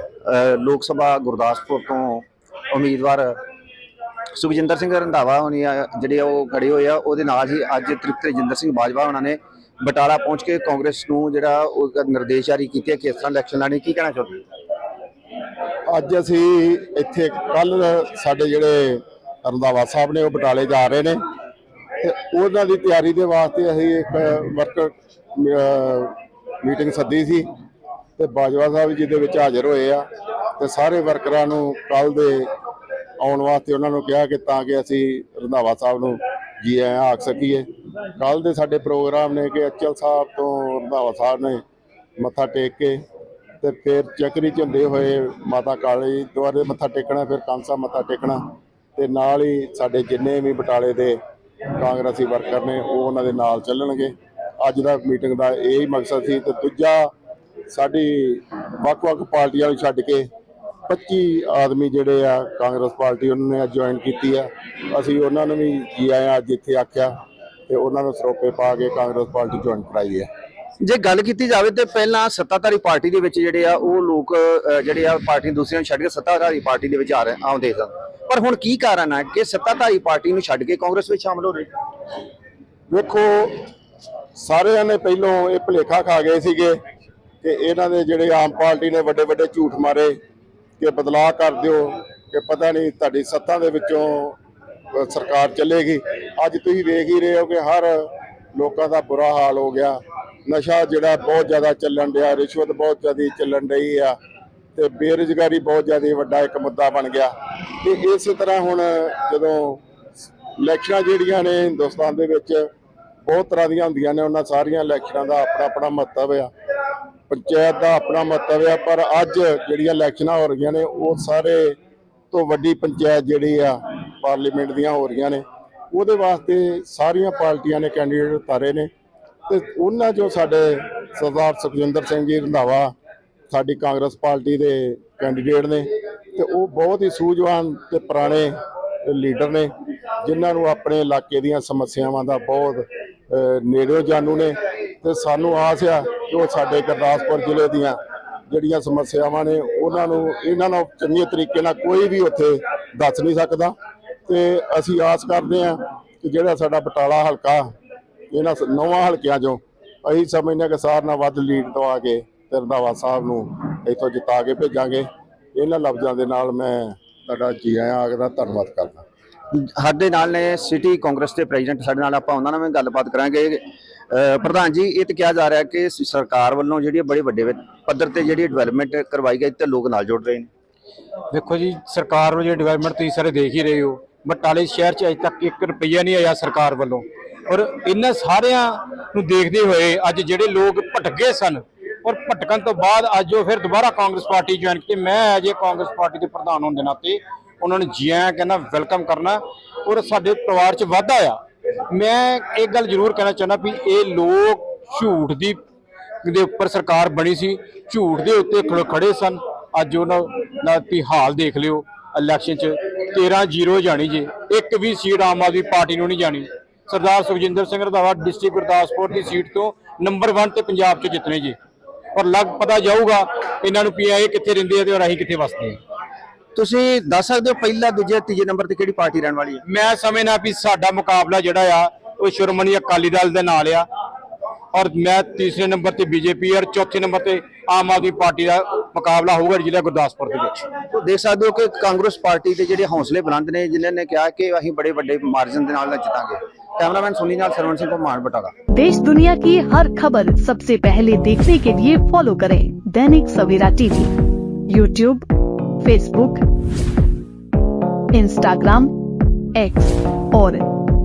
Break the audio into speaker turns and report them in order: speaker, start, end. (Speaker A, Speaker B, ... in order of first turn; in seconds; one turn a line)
Speaker A: 0.2-3.4
Speaker A: 4.3-14.4
Speaker B: 15.9-21.2
Speaker B: 22.0-27.5
Speaker B: 28.2-30.0
Speaker B: 30.6-32.5
Speaker B: 33.2-41.6
Speaker B: 42.2-43.0
Speaker B: 43.6-48.4
Speaker B: 49.0-51.2
Speaker B: 51.8-57.1
Speaker B: 57.7-60.2
Speaker B: 60.9-67.1
Speaker B: 67.7-70.3
Speaker A: 70.8-81.7
Speaker B: 82.9-83.7
Speaker B: 84.3-86.8
Speaker B: 87.4-90.1
Speaker B: 90.8-94.4
Speaker B: 94.9-104.2
Speaker B: 104.7-109.8
Speaker B: 110.6-112.7
Speaker B: 113.2-116.5
Speaker B: 117.3-121.8
Speaker B: 122.3-128.9
Speaker B: 129.5-132.9
Speaker B: 133.5-148.0
Speaker B: 148.5-153.7
Speaker B: 154.3-157.7
Speaker B: 158.3-169.0
Speaker A: 169.5-180.5
Speaker C: 181.3-201.4
Speaker C: 201.9-205.6
Speaker C: 206.2-221.6
Speaker C: 222.1-225.8
Speaker A: 226.5-229.6
Speaker C: 229.6-233.9
Speaker C: 234.7-240.7
Speaker A: 240.9-248.5
Speaker D: 248.7-254.1
Speaker D: 254.7-255.2
Speaker D: 255.8-256.4
Speaker D: 258.1-258.9
Speaker D: 259.5-260.6